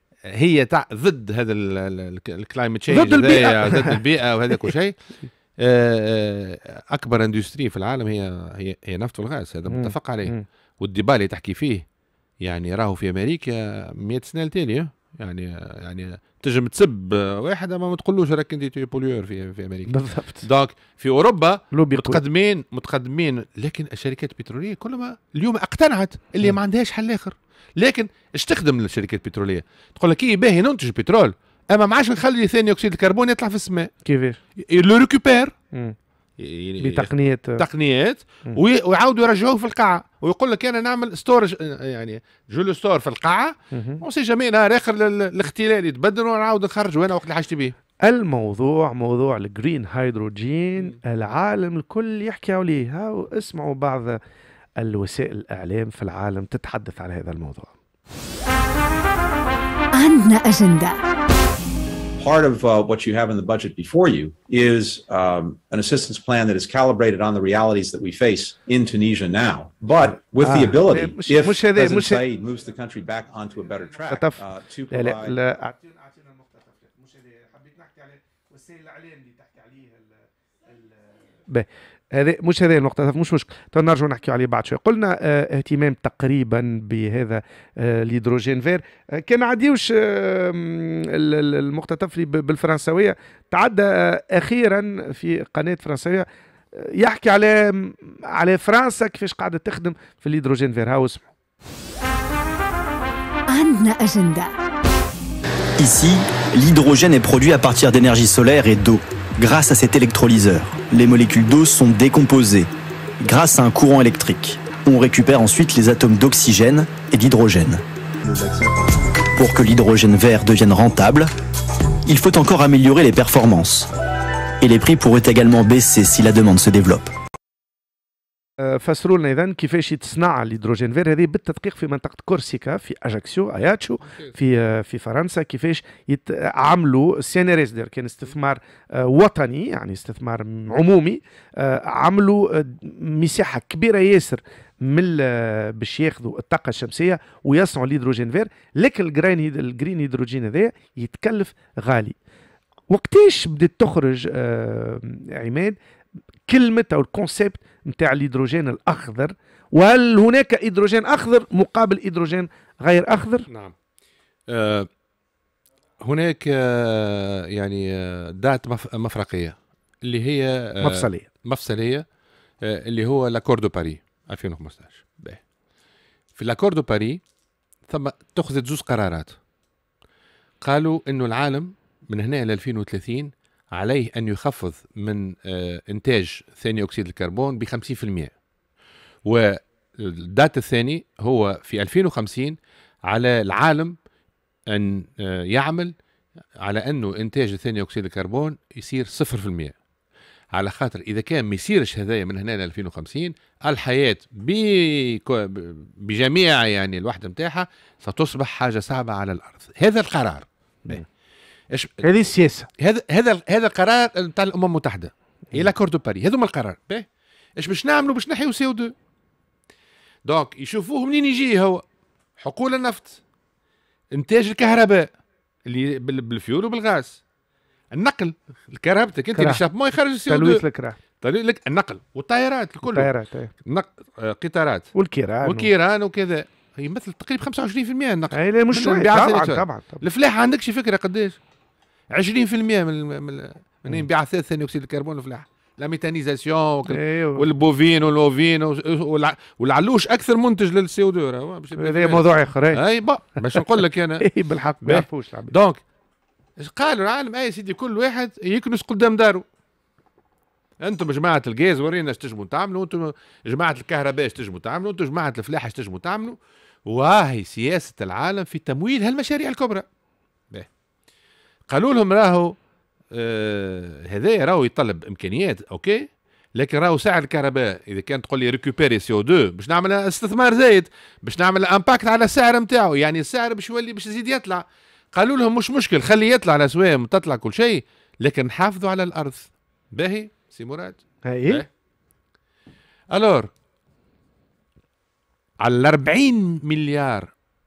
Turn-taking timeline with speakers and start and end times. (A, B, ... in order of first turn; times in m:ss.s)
0:00.3-0:05.0 A
0:02.9-0:04.0 B
0:05.6-0:11.8 A
0:09.7-0:10.4 B
0:12.4-0:33.9 A
0:19.9-0:20.5 B
0:21.7-0:22.2 B
0:34.0-0:34.4 B
0:34.7-0:35.5 A
0:36.4-0:47.8 A
0:36.8-0:37.6 B
0:43.7-0:44.0 B
0:48.0-0:54.2 B
0:54.8-0:57.7 B
0:59.9-1:01.0 C
1:02.2-1:15.4 D
1:10.4-1:12.2 B
1:14.1-1:15.9 B
1:16.5-1:19.8 B
1:21.5-1:41.2 B
1:43.5-1:44.5 C
1:45.8-1:52.7 E
1:53.2-1:57.8 E
1:59.2-2:01.3 E
2:02.1-2:03.9 E
2:04.6-2:07.1 E
2:08.6-2:32.2 B
2:32.9-2:35.8 B
2:36.5-2:43.5 B
2:44.5-2:44.9 A
2:46.0-2:52.0 A
2:50.8-2:51.3 B
2:52.6-2:55.4 A
2:56.4-2:57.2 A
2:57.9-2:59.4 A
3:00.6-3:08.3 A
3:09.2-3:14.0 A
3:14.7-3:15.9 A
3:16.6-3:19.7 A
3:20.5-3:31.0 A
3:31.7-3:32.1 A
3:32.0-3:32.7 B
3:32.8-3:37.1 A
3:37.6-3:38.9 A
3:40.2-3:41.8 A
3:42.4-3:43.2 A
3:44.1-3:45.1 A
3:45.7-3:47.2 A
3:47.9-3:50.6 A
3:49.4-3:49.6 B
3:50.3-3:51.0 B
3:51.2-3:53.1 A
3:52.9-3:53.5 B
3:53.6-3:54.9 A
3:55.0-3:55.7 B
3:55.4-4:01.4 A
3:58.3-4:00.0 B
4:02.1-4:14.3 A
4:06.9-4:07.4 B
4:11.8-4:12.8 B
4:14.2-4:15.5 B
4:14.8-4:15.8 A
4:16.6-4:19.4 A
4:20.8-4:29.8 A
4:31.7-4:32.6 A
4:33.1-4:51.7 A
4:51.3-4:51.6 B
4:53.1-4:53.5 A
4:55.6-4:57.3 A